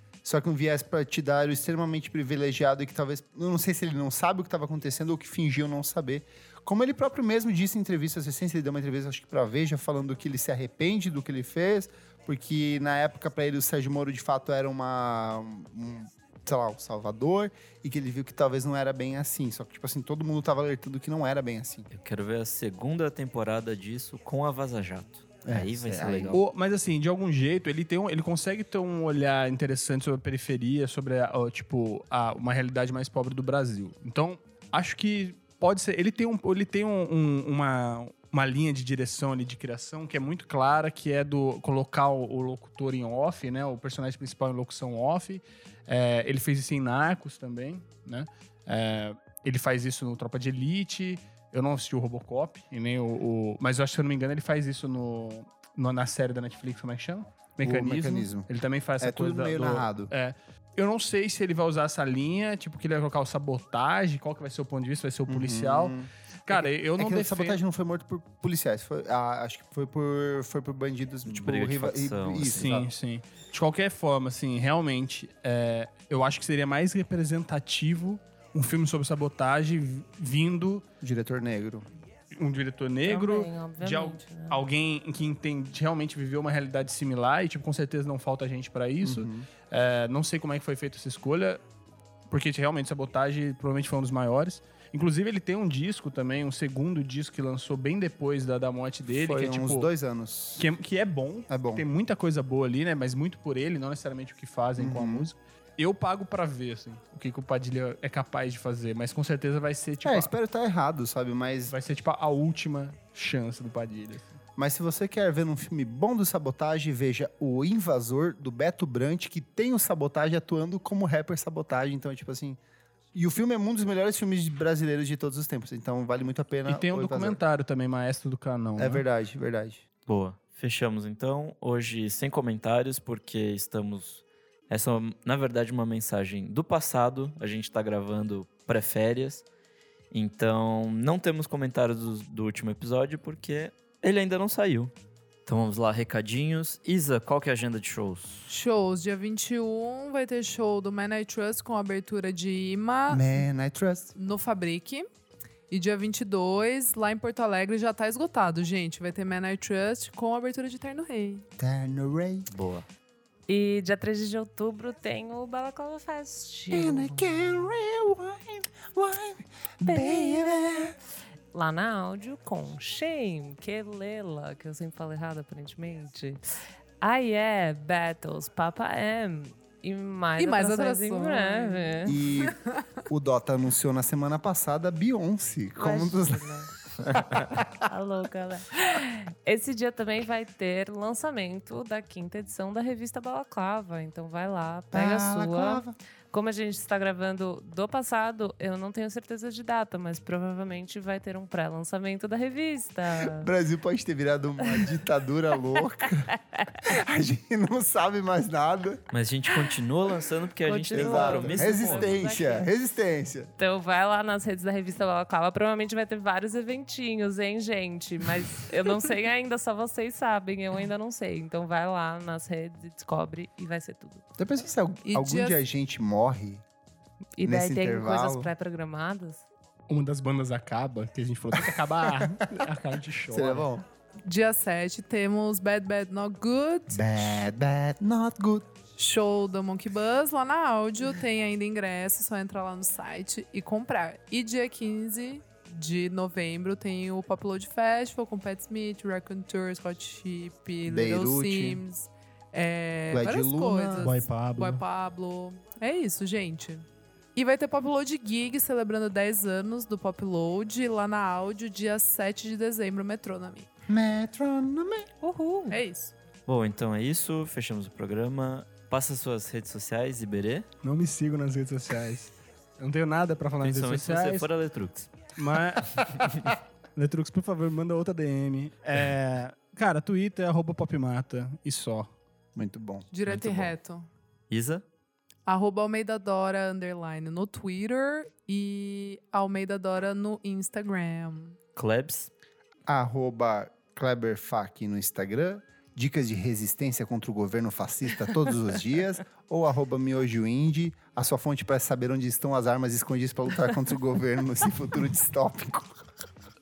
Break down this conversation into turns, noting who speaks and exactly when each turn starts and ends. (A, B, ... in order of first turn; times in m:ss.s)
0:00.2-0:21.9 A
0:21.9-0:26.4 B
0:25.4-0:26.4 A
0:26.3-1:07.6 C
0:57.6-0:58.5 A
0:59.0-1:00.1 A
1:05.3-1:12.9 A
1:11.2-1:12.7 B
1:12.4-1:20.8 C
1:21.0-1:21.8 A
1:22.3-1:31.6 C
1:23.0-1:24.6 D
1:29.0-1:29.5 A
1:32.3-1:39.9 C
1:39.1-1:40.6 A
1:40.6-1:50.3 C
1:41.5-1:41.8 A
1:44.8-1:45.3 A
1:50.0-1:51.7 A
1:51.7-1:54.4 C
1:54.6-2:02.6 A
2:03.1-2:07.4 A
2:06.7-2:09.0 C
2:08.8-2:09.8 A
2:10.1-2:19.4 B
2:20.1-2:24.9 B
2:25.4-2:28.5 B
2:28.5-2:33.4 E
2:33.1-2:34.1 A
2:34.1-2:35.1 E
2:35.7-2:41.4 E
2:41.6-2:42.5 A
2:42.5-2:42.8 B
2:43.5-2:47.4 D
2:46.7-2:51.0 A
2:49.9-2:50.9 D
2:51.5-2:56.4 D
2:57.0-3:02.2 D
3:00.4-3:02.8 E
3:02.0-3:06.5 A
3:05.8-3:06.7 D
3:07.1-3:07.6 A
3:07.8-3:23.5 D
3:14.9-3:15.9 A
3:23.2-3:26.3 A
3:26.5-3:26.8 D
3:26.8-3:29.0 A
3:29.1-3:32.2 B
3:30.6-3:32.7 D
3:30.9-3:33.5 A
3:33.6-3:44.2 D
3:44.4-3:46.6 A
3:45.0-3:45.6 E
3:47.4-3:49.4 D
3:47.4-3:48.5 A
3:49.9-3:53.7 C
3:51.6-3:52.7 A
3:53.3-3:53.8 A
3:54.2-3:57.4 E
3:56.9-3:58.7 A
3:59.0-4:23.7 E
4:10.8-4:11.8 A
4:13.1-4:14.2 A
4:14.0-4:14.8 C
4:23.9-4:25.1 A
4:25.2-4:25.8 D
4:25.7-4:26.1 E
4:26.4-4:30.7 B
4:30.8-4:34.5 C
4:33.6-4:35.2 B
4:35.3-4:42.1 C
4:42.5-4:43.1 A
4:43.1-4:44.1 E
4:43.3-4:43.7 B
4:44.5-4:44.8 B
4:45.5-4:51.6 E
4:51.8-4:52.3 B
4:52.9-5:06.0 A